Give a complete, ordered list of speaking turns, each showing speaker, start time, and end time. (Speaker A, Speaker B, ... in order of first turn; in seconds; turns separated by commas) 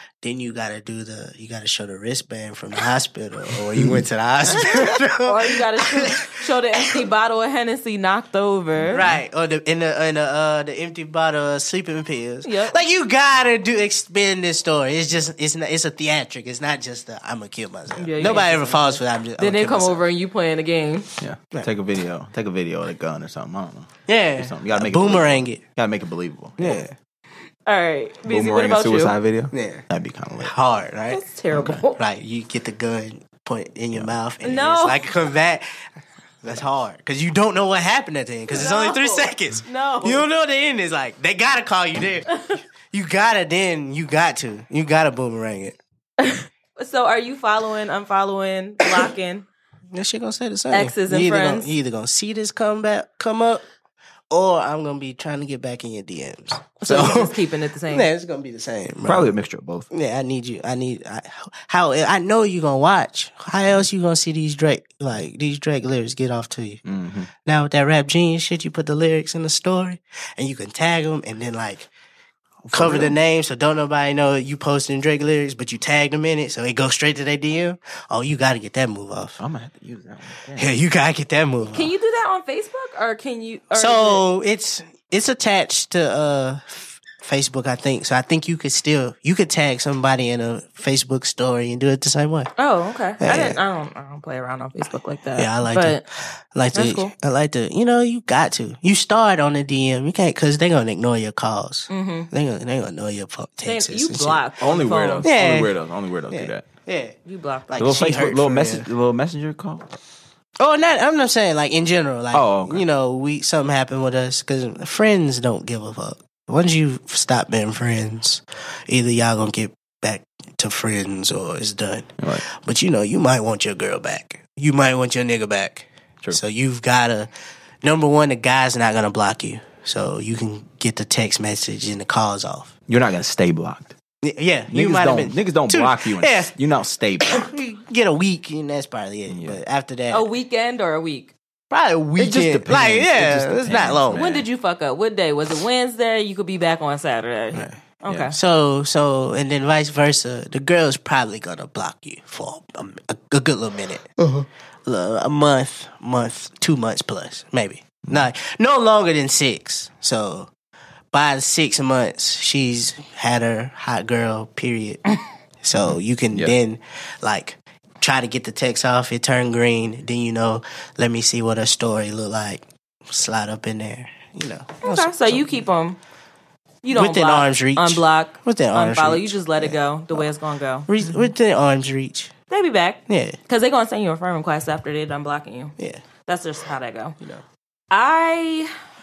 Speaker A: 0.2-6.4, Speaker B: 3.8-5.0, Speaker C: 5.2-9.1, Speaker B: 8.8-9.2, Speaker A: 8.9-20.1, Speaker C: 12.4-12.8, Speaker C: 18.0-21.1, Speaker B: 21.2-26.9, Speaker A: 24.1-25.6, Speaker A: 26.6-27.0, Speaker C: 27.7-29.1, Speaker B: 28.3-30.5, Speaker A: 29.5-29.8, Speaker A: 30.4-31.2, Speaker C: 31.1-32.0, Speaker B: 31.5-31.8, Speaker A: 31.9-35.8, Speaker C: 34.4-35.0, Speaker A: 36.4-45.8, Speaker C: 38.5-40.3, Speaker C: 46.2-49.5, Speaker A: 49.9-53.6, Speaker C: 50.7-51.7, Speaker A: 54.3-59.3, Speaker C: 56.8-58.1, Speaker B: 59.0-59.9, Speaker A: 59.9-66.8, Speaker B: 66.8-67.3, Speaker A: 67.5-71.9, Speaker B: 72.6-73.2, Speaker A: 72.7-79.4, Speaker B: 79.4-80.8, Speaker A: 80.6-81.9, Speaker C: 81.7-84.2, Speaker A: 83.8-92.5, Speaker C: 92.6-96.0, Speaker A: 93.2-93.6, Speaker A: 95.4-104.4, Speaker C: 96.7-97.1, Speaker C: 101.9-102.3, Speaker C: 103.6-105.3, Speaker B: 104.6-106.7, Speaker A: 105.2-105.8, Speaker A: 106.3-107.2, Speaker C: 107.2-108.0, Speaker A: 107.7-108.9, Speaker B: 107.8-109.9, Speaker A: 110.6-127.3, Speaker B: 112.3-112.8, Speaker A: 127.8-132.8, Speaker B: 132.9-134.0, Speaker A: 134.2-136.5, Speaker B: 134.7-137.5, Speaker A: 137.2-140.3, Speaker B: 139.3-139.6, Speaker C: 140.1-141.3, Speaker A: 141.7-144.2, Speaker B: 142.2-144.5, Speaker C: 144.1-148.3, Speaker B: 148.1-148.4, Speaker A: 148.3-154.3, Speaker A: 154.9-160.5, Speaker A: 161.1-165.1, Speaker A: 165.6-175.7, Speaker B: 165.8-166.6, Speaker C: 174.8-176.0, Speaker C: 176.8-180.9, Speaker A: 176.9-180.3, Speaker A: 180.9-182.3, Speaker C: 182.5-185.8, Speaker A: 183.1-183.4, Speaker C: 186.3-187.2, Speaker C: 187.9-188.7